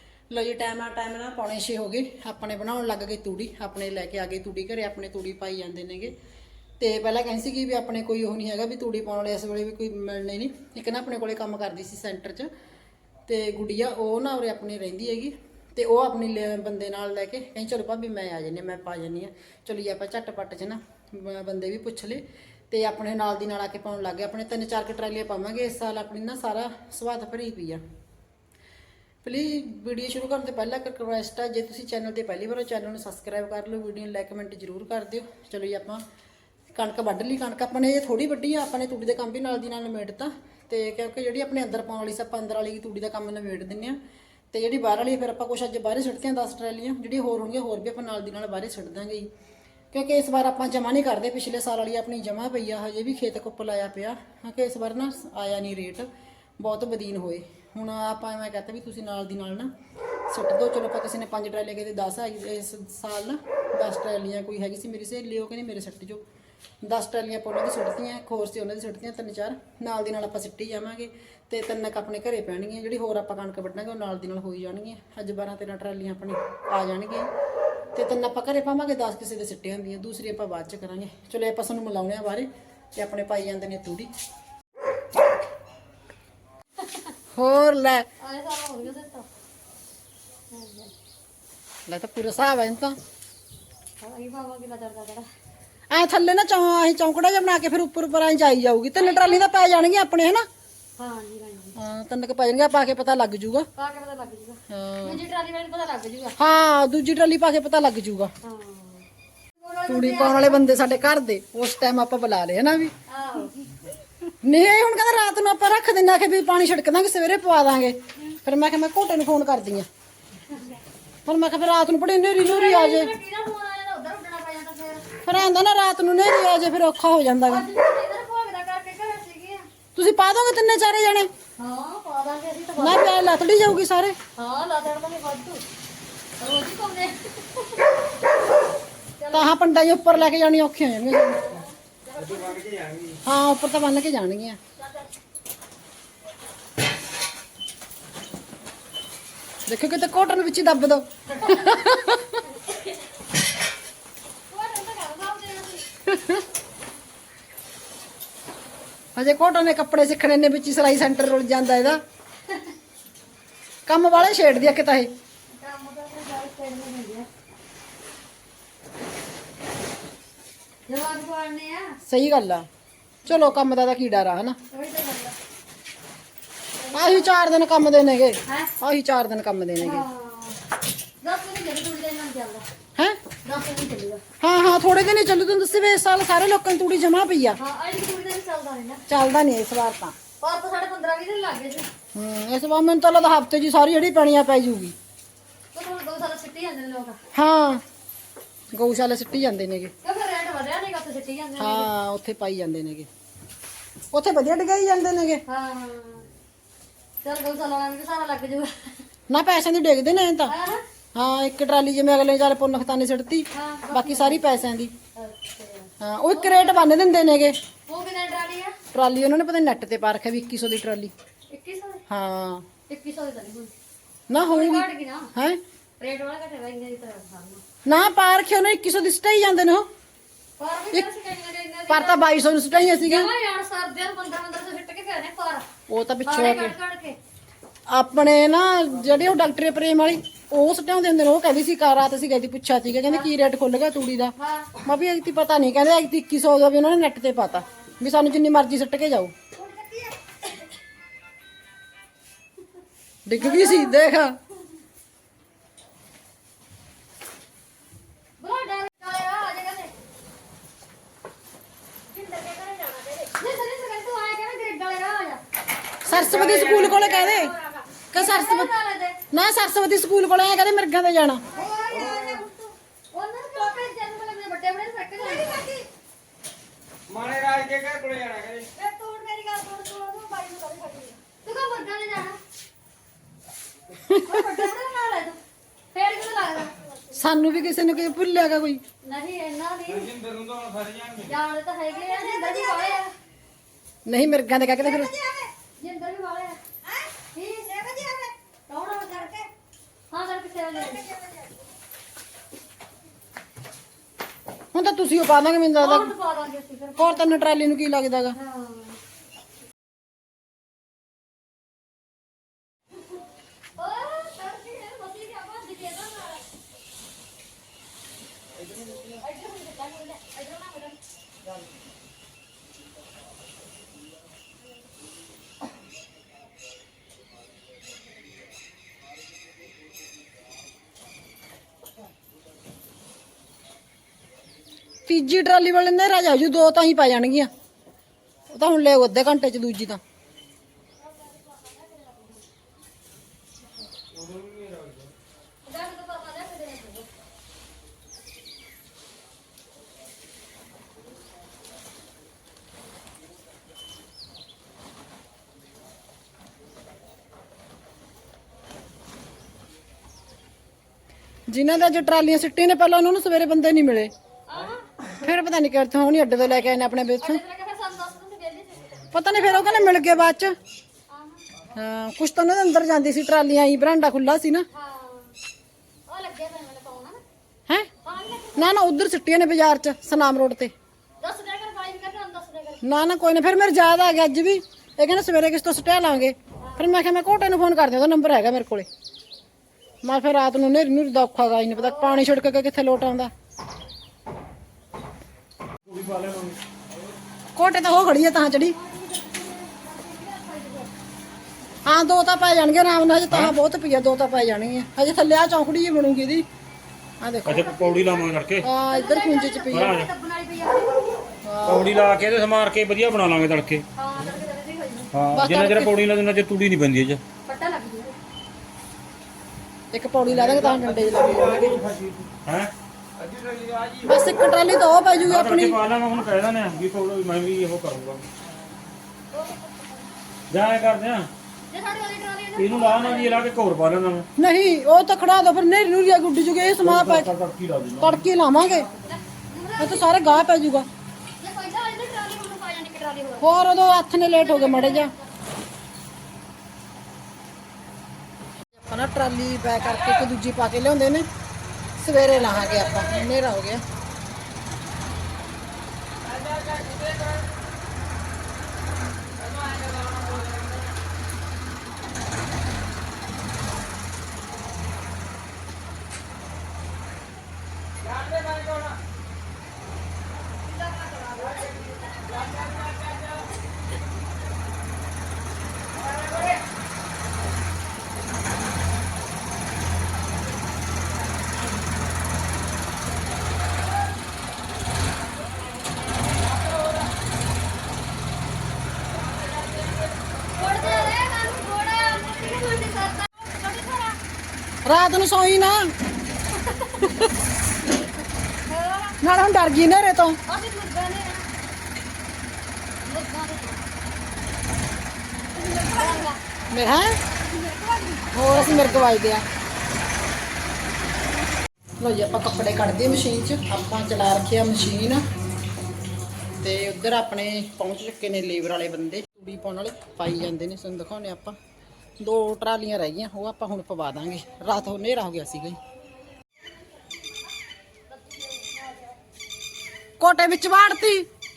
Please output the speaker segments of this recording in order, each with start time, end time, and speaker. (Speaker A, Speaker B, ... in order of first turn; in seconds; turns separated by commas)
Speaker A: 0.3-6.1, Speaker A: 6.8-12.5, Speaker A: 13.3-27.8, Speaker A: 29.2-36.0, Speaker A: 36.7-44.0, Speaker A: 44.5-49.3, Speaker A: 49.9-56.1, Speaker A: 56.6-59.7, Speaker A: 60.3-66.2, Speaker A: 66.8-77.3, Speaker A: 78.0-84.1, Speaker A: 87.3-88.1, Speaker B: 88.2-89.3, Speaker B: 90.5-90.9, Speaker A: 91.9-93.0, Speaker B: 94.0-95.3, Speaker A: 95.9-100.5, Speaker B: 99.0-99.5, Speaker B: 101.0-101.8, Speaker A: 101.8-103.7, Speaker B: 103.8-106.3, Speaker A: 104.7-105.2, Speaker A: 106.4-108.3, Speaker B: 108.4-109.1, Speaker B: 109.6-110.7, Speaker A: 109.9-112.9, Speaker B: 113.1-113.5, Speaker A: 114.4-119.9, Speaker A: 121.3-123.1, Speaker B: 122.4-125.1, Speaker A: 125.2-127.7, Speaker B: 127.5-129.7, Speaker A: 130.0-131.3, Speaker B: 131.6-133.2, Speaker A: 132.8-134.2, Speaker B: 134.4-135.6, Speaker B: 136.4-138.0, Speaker B: 139.2-139.5, Speaker A: 139.3-141.5, Speaker B: 141.3-142.6, Speaker C: 142.2-143.2, Speaker A: 143.2-144.6, Speaker B: 144.8-145.1, Speaker A: 149.7-152.4, Speaker B: 154.5-155.8, Speaker A: 156.1-156.4, Speaker A: 159.2-162.0, Speaker A: 163.9-165.1, Speaker B: 165.5-167.3, Speaker B: 170.9-172.0, Speaker A: 172.1-172.7, Speaker A: 173.2-174.6, Speaker B: 174.7-175.3, Speaker B: 176.8-177.3, Speaker A: 176.9-180.0, Speaker B: 178.5-178.7, Speaker B: 179.8-180.6, Speaker B: 181.2-182.7, Speaker B: 183.4-184.2, Speaker A: 184.4-187.6, Speaker B: 187.6-189.0, Speaker A: 189.1-190.2, Speaker B: 190.4-191.9, Speaker A: 192.2-194.9, Speaker B: 195.7-197.2, Speaker A: 197.3-197.8, Speaker A: 198.7-199.9, Speaker B: 200.0-201.9, Speaker A: 201.6-203.1, Speaker A: 204.1-205.4, Speaker B: 205.5-206.3, Speaker B: 207.2-209.1, Speaker A: 209.3-210.5, Speaker B: 210.5-210.8, Speaker A: 211.2-214.9, Speaker B: 213.5-214.4, Speaker B: 215.2-216.9, Speaker A: 216.0-217.6, Speaker B: 217.9-218.8, Speaker A: 218.9-221.1, Speaker B: 221.5-222.0, Speaker A: 222.1-222.7, Speaker B: 222.9-223.7, Speaker A: 224.3-225.6, Speaker B: 224.4-225.3, Speaker B: 226.0-227.6, Speaker A: 227.9-229.9, Speaker B: 230.6-235.7, Speaker A: 231.9-233.3, Speaker A: 235.9-236.8, Speaker B: 236.3-237.2, Speaker A: 237.9-249.3, Speaker B: 244.4-244.7, Speaker B: 249.6-250.2, Speaker A: 253.3-254.4, Speaker B: 253.4-254.0, Speaker B: 258.4-259.9, Speaker B: 262.1-265.4, Speaker A: 266.1-267.6, Speaker B: 266.1-269.2, Speaker C: 266.4-266.7, Speaker A: 268.1-268.7, Speaker A: 269.3-271.4, Speaker B: 271.5-275.8, Speaker C: 271.9-272.5, Speaker C: 277.1-278.7, Speaker B: 278.8-282.4, Speaker A: 284.1-284.4, Speaker B: 284.1-285.4, Speaker B: 285.9-287.6, Speaker A: 287.1-288.8, Speaker B: 289.0-290.1, Speaker C: 290.0-291.3, Speaker B: 291.3-293.1, Speaker A: 294.1-295.1, Speaker B: 294.9-296.6, Speaker B: 297.3-299.5, Speaker B: 300.1-301.1, Speaker A: 304.7-306.1, Speaker B: 305.8-307.6, Speaker A: 307.0-308.4, Speaker B: 308.4-309.0, Speaker B: 313.8-316.4, Speaker B: 319.0-321.0, Speaker A: 335.1-337.5, Speaker A: 338.5-340.0, Speaker B: 341.2-342.4, Speaker C: 344.1-345.1, Speaker B: 345.7-347.1, Speaker A: 361.5-364.1, Speaker B: 364.5-364.9, Speaker A: 365.1-367.4, Speaker B: 367.2-370.3, Speaker A: 369.1-370.6, Speaker B: 371.1-371.4, Speaker A: 371.7-374.7, Speaker B: 374.7-375.4, Speaker B: 376.1-377.2, Speaker B: 378.0-378.8, Speaker A: 378.6-380.7, Speaker B: 381.2-382.8, Speaker A: 382.8-388.9, Speaker B: 386.6-387.0, Speaker A: 390.0-393.3, Speaker B: 391.8-392.2, Speaker D: 395.9-396.6, Speaker A: 397.6-398.8, Speaker B: 398.7-400.9, Speaker A: 401.9-406.5, Speaker A: 407.2-408.0, Speaker D: 407.5-408.7, Speaker A: 408.6-410.0, Speaker B: 408.9-411.2, Speaker D: 409.7-410.1, Speaker A: 411.4-412.0, Speaker D: 411.6-413.9, Speaker B: 414.0-415.1, Speaker D: 415.1-417.2, Speaker A: 415.3-415.9, Speaker B: 417.5-418.1, Speaker A: 419.9-421.8, Speaker C: 420.5-422.2, Speaker D: 422.3-422.7, Speaker C: 423.2-424.2, Speaker A: 424.0-425.8, Speaker D: 425.2-428.2, Speaker B: 429.3-430.1, Speaker D: 430.5-431.3, Speaker B: 431.7-433.4, Speaker D: 432.6-434.3, Speaker A: 434.4-437.3, Speaker D: 436.8-438.3, Speaker A: 438.0-438.9, Speaker B: 438.8-440.5, Speaker A: 439.8-440.9, Speaker B: 441.4-443.5, Speaker A: 443.4-445.1, Speaker B: 444.3-445.3, Speaker A: 448.8-451.3, Speaker A: 452.0-453.8, Speaker C: 456.4-457.4, Speaker C: 459.4-460.8, Speaker C: 468.0-469.0, Speaker B: 470.7-473.0, Speaker C: 472.6-473.3, Speaker C: 489.5-490.1, Speaker B: 490.6-494.2, Speaker A: 494.9-495.9, Speaker B: 496.5-497.1, Speaker B: 498.7-499.2, Speaker A: 499.2-500.4, Speaker B: 500.5-501.5, Speaker B: 503.0-503.8, Speaker B: 505.5-506.4, Speaker A: 506.7-507.2, Speaker B: 507.4-509.1, Speaker A: 508.3-509.4, Speaker A: 512.0-515.2, Speaker A: 516.6-521.5, Speaker A: 522.2-525.8, Speaker B: 528.1-529.1, Speaker A: 530.2-531.3